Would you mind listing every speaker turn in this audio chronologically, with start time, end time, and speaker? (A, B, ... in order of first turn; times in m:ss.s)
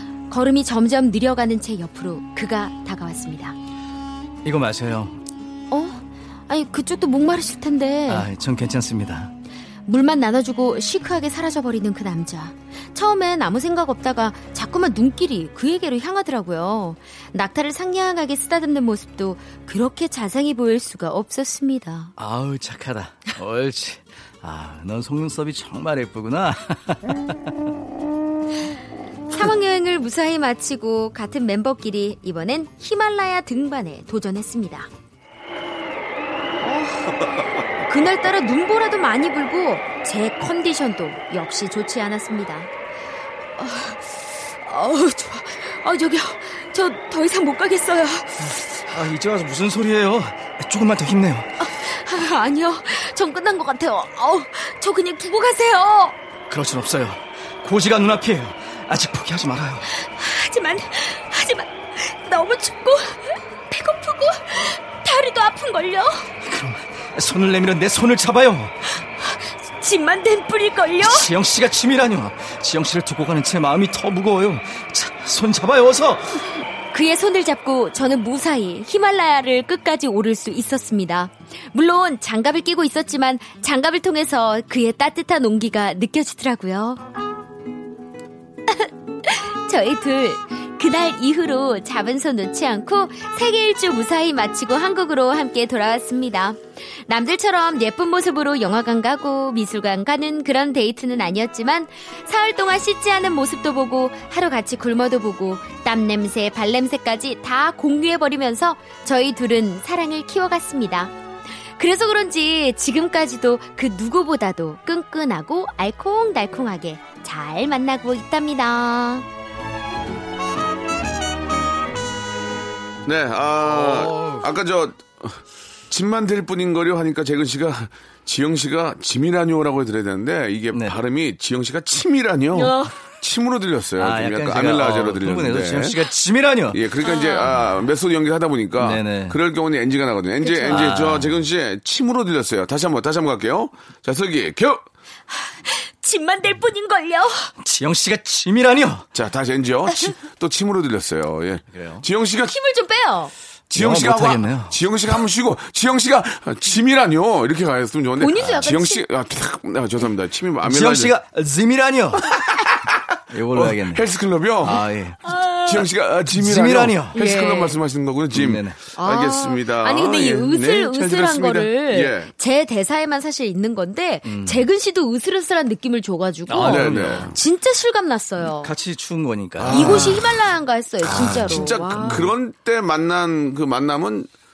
0:00.3-0:03.6 A
0:04.4-0:05.2 B
0:05.7-0:08.3 A
0:08.1-0:09.3 B
0:09.9-0:22.1 A
0:22.2-0:27.5 B
0:29.3-0:34.9 A
0:36.6-0:42.7 A
0:43.6-0:48.8 A
0:48.4-0:51.5 B
0:51.6-0:56.2 A
0:56.5-0:59.9 B
0:59.9-1:06.3 A
1:06.4-1:08.8 B
1:09.2-1:11.3 A
1:11.0-1:16.4 B
1:16.9-1:27.0 A
1:28.7-1:51.1 A
1:51.8-1:59.3 A
2:03.0-2:16.0 C
2:03.6-2:04.5 B
2:10.7-2:11.0 B
2:12.5-2:13.0 A
2:14.0-2:16.8 B
2:16.7-2:24.8 C
2:17.0-2:17.6 A
2:18.8-2:19.4 B
2:20.4-2:21.0 A
2:20.7-2:21.4 B
2:25.3-2:27.5 A
2:27.6-2:29.1 B
2:29.1-2:32.6 C
2:29.9-2:30.1 A
2:31.7-2:32.1 B
2:32.5-2:33.3 A
2:33.7-2:41.2 C
2:33.8-2:34.8 B
2:38.2-2:39.0 A
2:40.6-2:42.3 B
2:42.3-2:43.0 C
2:43.3-2:44.0 B
2:43.5-2:44.8 C
2:44.6-2:45.2 B
2:45.3-2:45.9 A
2:45.6-2:52.3 C
2:46.3-2:47.2 B
2:47.2-2:47.8 A
2:48.3-2:48.8 B
2:49.0-2:58.7 A
2:54.3-2:54.6 B
2:56.5-2:57.4 B
2:56.6-2:57.4 C
2:58.4-3:00.2 B
2:59.6-3:00.3 C
2:59.7-3:02.3 A
3:01.0-3:04.3 C
3:01.0-3:02.3 B